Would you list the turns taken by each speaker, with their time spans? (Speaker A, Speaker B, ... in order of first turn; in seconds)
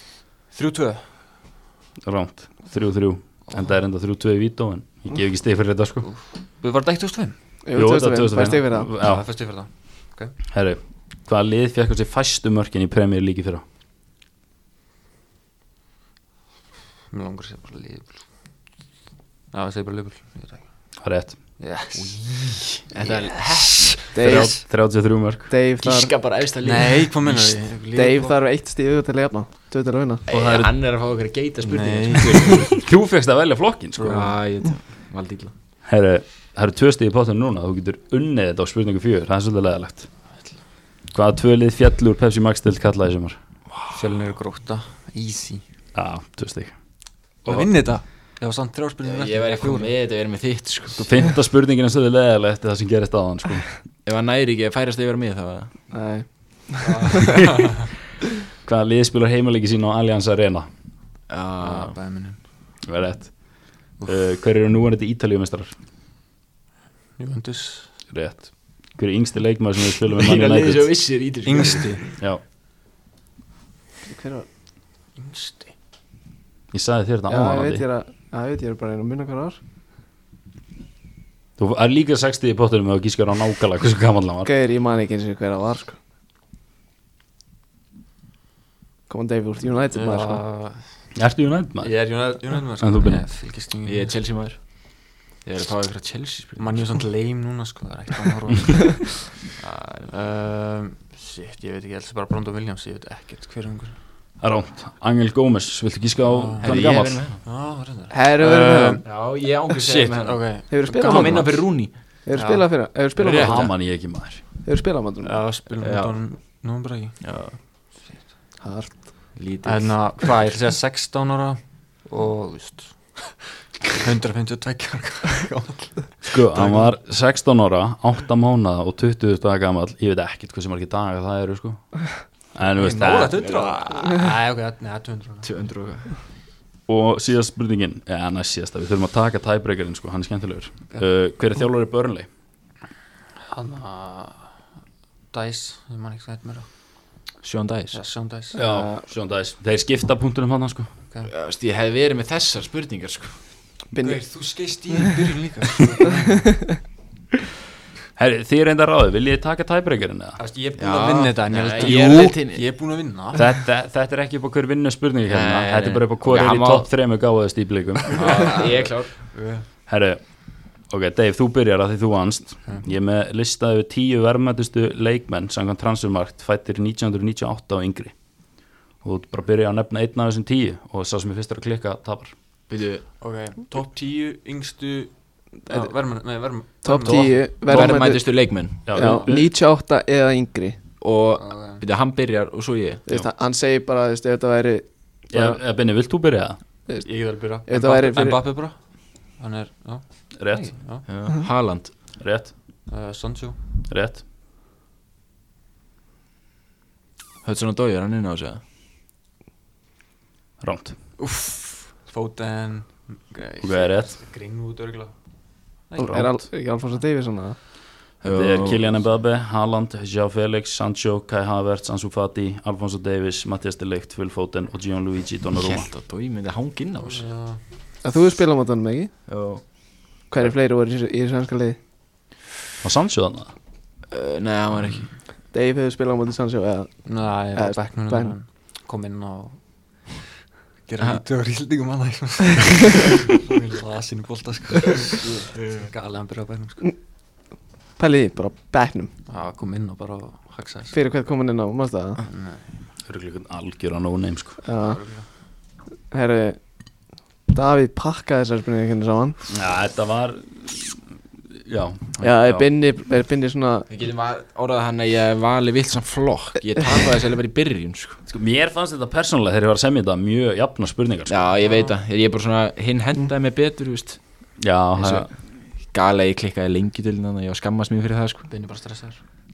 Speaker A: 0.5-1.1, 6.0-7.4, 9.0-10.3, 17.1-18.3, 19.5-20.9, 21.6-24.6, 26.6-28.4, 31.6-32.7, 34.0-34.3, 43.9-45.6, 47.4-49.9, 56.8-57.5, 61.6-62.4, 67.2-67.9, 71.4-72.1, 75.2-75.7, 89.9-91.1, 91.8-94.2, 96.6-99.4, 100.0-104.0, 106.2-106.9, 107.4-109.0, 109.7-111.7, 112.3-112.7, 115.2-117.4, 119.6-123.3, 123.9-126.9, 132.7-135.5, 143.5-144.6, 145.3-146.7, 147.9-148.9, 154.0-156.7, 160.4-163.6, 168.4-169.6, 183.2-187.9, 189.0-189.3, 191.4-191.8, 197.0-201.0, 202.9-203.6, 211.2-215.2, 215.8-216.1, 227.0-227.6, 237.0-240.3, 240.8-246.9, 249.3-250.9, 252.2-252.6, 254.8-255.3, 271.6-271.9, 278.5-279.2
Speaker B: 2.0-6.1, 7.7-9.3, 10.5-13.6, 21.0-21.4, 24.2-25.5, 30.3-30.7, 32.8-34.3, 35.8-40.1, 41.1-43.4, 45.9-47.7, 51.0-53.7, 58.6-60.7, 62.8-65.7, 68.1-71.0, 76.7-77.8, 81.6-84.5, 91.1-93.3, 104.4-107.2, 113.3-114.4, 126.2-133.5, 136.9-142.3, 148.5-150.9, 158.2-160.4, 163.3-168.4, 169.9-182.3, 188.8-189.5, 195.3-196.6, 200.3-200.8, 202.2-202.5, 203.9-204.2, 210.6-210.9, 213.6-214.2, 216.0-216.4, 218.2-225.9, 232.8-233.5, 253.0-254.6, 259.5-261.0, 261.6-262.7, 268.3-271.5, 274.6-275.3
Speaker C: 7.6-8.9, 24.1-24.8, 25.5-26.1, 27.9-30.2, 55.9-57.1, 74.0-74.5, 77.3-79.6, 84.4-86.0, 89.1-90.4, 108.1-109.0, 110.7-113.7, 114.6-115.4, 118.6-119.2, 153.9-154.7, 186.8-190.8, 193.1-195.6, 196.9-198.4, 215.9-217.6, 228.0-229.7, 230.3-231.8, 235.5-238.3, 248.0-249.1, 250.9-252.2, 254.6-255.0, 256.1-259.4, 262.2-263.9
Speaker D: 21.9-24.1, 25.8-27.6, 30.3-32.8, 34.0-35.5, 49.0-51.1, 54.0-55.9, 61.3-62.0, 70.2-72.0, 93.8-97.0, 99.6-100.1, 106.6-107.4, 109.0-112.0, 113.2-113.7, 115.8-116.2, 117.2-117.6, 119.3-120.4, 133.2-134.1, 135.4-136.1, 147.4-148.0, 151.2-153.8, 160.8-162.6, 165.3-166.9, 168.1-169.1, 182.7-183.2, 187.6-188.9, 191.0-193.0, 201.1-202.0, 207.4-208.6, 218.2-218.9, 225.5-227.3, 229.3-230.3, 234.1-235.2, 245.6-245.9, 263.9-268.2, 271.3-278.5